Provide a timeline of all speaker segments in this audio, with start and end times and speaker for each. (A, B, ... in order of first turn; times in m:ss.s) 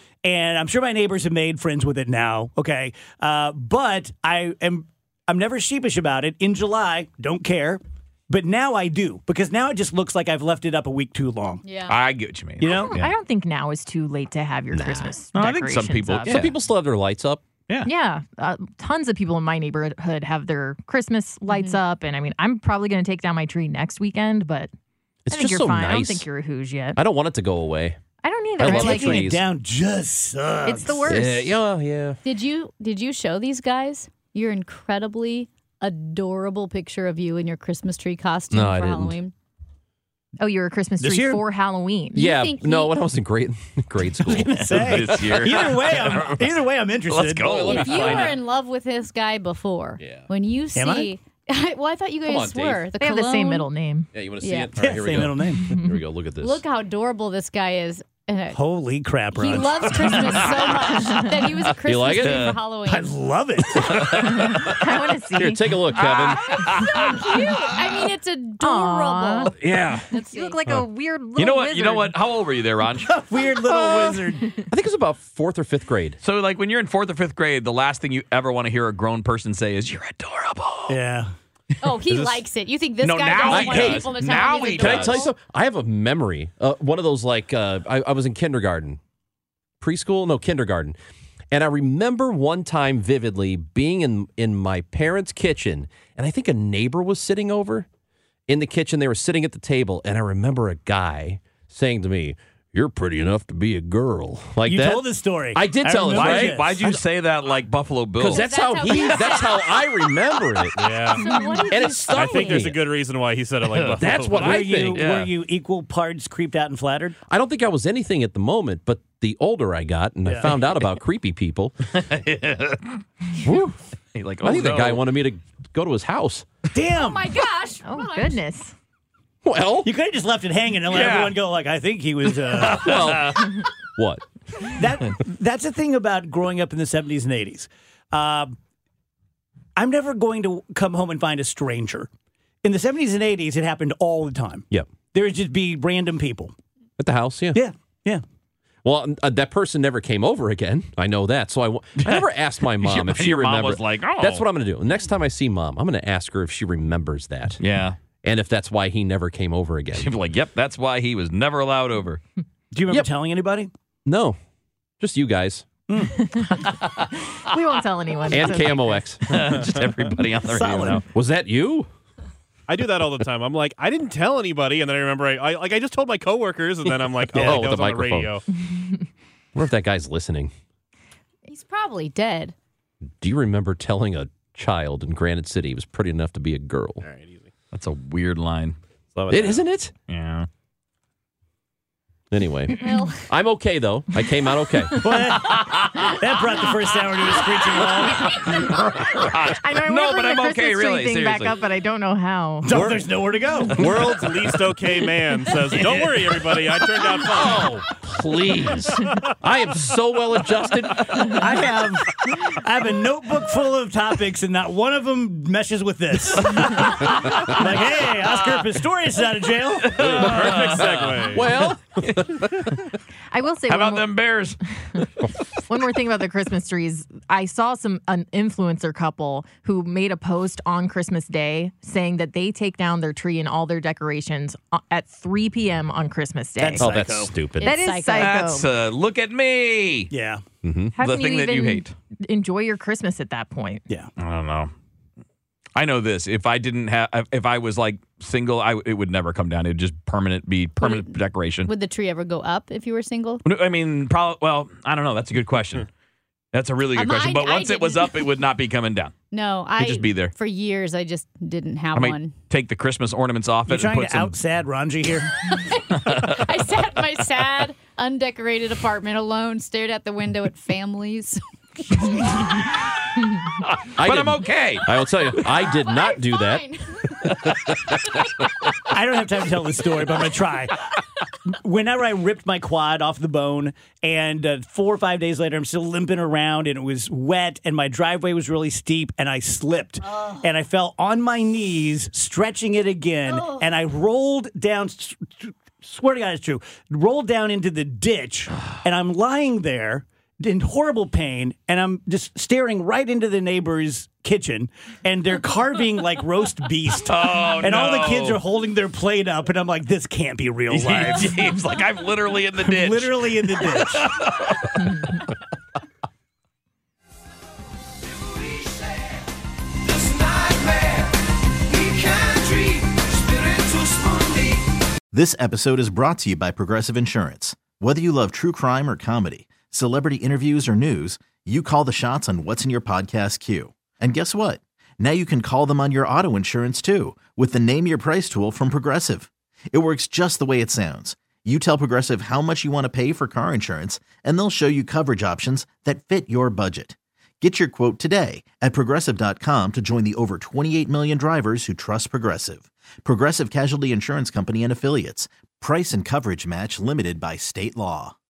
0:00.2-0:11.6 A
0:11.6-0:12.0 B
0:11.9-0:13.1 C
0:12.6-0:12.9 A
0:12.6-0:16.4 D
0:14.7-0:15.1 E
0:15.4-0:16.5 C
0:16.2-0:17.4 E
0:17.8-0:24.7 D
0:21.5-0:21.8 B
0:25.3-0:26.3 E
0:25.3-0:27.0 D
0:27.0-0:28.0 E
0:28.2-0:29.3 D
0:28.6-0:29.4 E
0:28.6-0:31.1 A
0:30.7-0:31.6 D
0:31.1-0:32.2 E
0:32.2-0:39.3 B
0:38.5-0:39.2 E
0:40.4-0:42.3 D
0:41.0-0:41.4 A
0:42.1-0:43.1 B
0:42.2-0:45.3 E
0:44.2-0:47.5 A
0:44.7-0:46.5 C
0:47.1-0:48.3 C
0:47.4-0:48.4 E
0:47.7-0:53.7 B
0:50.0-0:50.3 E
0:50.7-0:51.1 A
0:52.3-0:52.7 C
0:52.3-0:52.7 E
0:53.0-0:54.1 D
0:54.1-0:56.6 E
0:54.4-0:54.7 B
0:54.8-0:55.7 A
0:55.6-0:56.0 D
0:56.4-0:58.6 B
0:58.5-0:59.7 A
0:59.3-1:03.2 B
1:00.0-1:01.2 C
1:01.8-1:02.5 E
1:02.2-1:02.6 C
1:02.9-1:04.2 A
1:03.7-1:04.8 C
1:04.2-1:05.8 D
1:05.3-1:06.7 E
1:06.0-1:07.6 C
1:06.8-1:07.8 D
1:06.8-1:09.6 B
1:08.6-1:09.6 D
1:09.6-1:10.1 C
1:10.1-1:12.2 D
1:10.1-1:10.6 B
1:11.4-1:13.1 C
1:13.1-1:14.5 A
1:14.6-1:16.2 E
1:16.2-1:21.0 C
1:20.9-1:21.3 A
1:21.8-1:25.3 B
1:23.0-1:25.3 C
1:23.5-1:29.0 E
1:29.8-1:31.0 E
1:31.5-1:37.9 E
1:38.5-1:47.0 E
1:44.6-1:47.0 A
1:46.1-1:49.0 C
1:48.2-1:52.8 E
1:48.3-1:50.4 B
1:50.8-1:51.3 F
1:51.1-1:52.6 B
1:51.2-1:51.7 D
1:52.1-1:54.8 F
1:53.7-1:54.0 C
1:54.0-1:55.1 E
1:54.4-1:57.2 A
1:55.0-1:55.3 C
1:57.3-2:01.8 E
2:00.2-2:00.5 A
2:01.9-2:03.0 C
2:03.4-2:03.8 E
2:04.2-2:05.1 C
2:04.4-2:06.5 E
2:06.8-2:07.3 A
2:06.9-2:08.4 B
2:07.8-2:08.7 D
2:09.4-2:09.9 E
2:09.8-2:12.8 A
2:10.9-2:11.4 C
2:12.5-2:13.6 C
2:12.8-2:14.2 E
2:14.7-2:18.6 A
2:19.8-2:22.1 A
2:22.6-2:26.5 A
2:27.0-2:27.6 E
2:27.5-2:28.2 A
2:28.8-2:37.6 E
2:32.0-2:32.3 C
2:32.8-2:34.4 C
2:37.6-2:38.0 C
2:38.2-2:40.1 E
2:40.0-2:42.2 C
2:42.7-2:43.7 A
2:44.0-2:44.4 E
2:45.0-2:45.7 E
2:45.9-2:46.2 A
2:46.2-2:46.7 D
2:47.4-2:49.1 D
2:48.3-2:49.6 E
2:49.3-2:51.0 C
2:50.4-2:51.0 A
2:51.1-2:51.9 E
2:52.7-2:58.4 F
2:57.3-2:58.4 E
2:57.4-2:57.6 A
2:59.6-3:00.5 E
3:01.5-3:02.5 B
3:03.2-3:07.0 E
3:07.0-3:07.5 F
3:07.7-3:10.5 C
3:09.3-3:09.9 E
3:12.3-3:15.0 E
3:12.8-3:13.3 B
3:15.0-3:18.4 A
3:15.4-3:16.2 C
3:18.2-3:21.6 C
3:19.6-3:22.7 D
3:22.6-3:23.9 A
3:22.7-3:23.0 F
3:23.7-3:27.8 F
3:25.8-3:26.3 C
3:27.2-3:31.6 E
3:31.4-3:40.0 A
3:37.1-3:37.6 C
3:39.8-3:42.4 C
3:39.9-3:42.8 E
3:40.0-3:41.7 F
3:43.3-3:44.2 D
3:43.7-3:45.0 C
3:45.7-3:56.9 D
3:56.6-3:57.3 A
3:56.8-3:57.7 E
3:57.6-3:58.7 D
3:57.6-3:58.4 B
3:58.2-4:00.1 C
4:00.1-4:00.4 A
4:00.6-4:00.9 E
4:00.9-4:03.9 D
4:01.0-4:01.9 C
4:04.2-4:04.7 C
4:05.8-4:11.7 C
4:10.8-4:13.4 B
4:13.4-4:15.9 C
4:16.5-4:19.1 C
4:17.0-4:18.2 B
4:19.3-4:22.3 B
4:19.8-4:20.3 C
4:22.0-4:24.4 C
4:23.7-4:25.3 A
4:25.4-4:32.5 B
4:33.6-4:34.9 C
4:34.0-4:36.6 E
4:35.5-4:38.5 B
4:37.2-4:38.0 E
4:38.9-4:40.9 A
4:41.5-5:11.4 A
4:53.4-4:53.6 B
5:07.0-5:08.4 C
5:10.7-5:15.2 C
5:12.6-5:14.1 A
5:25.1-5:58.2 G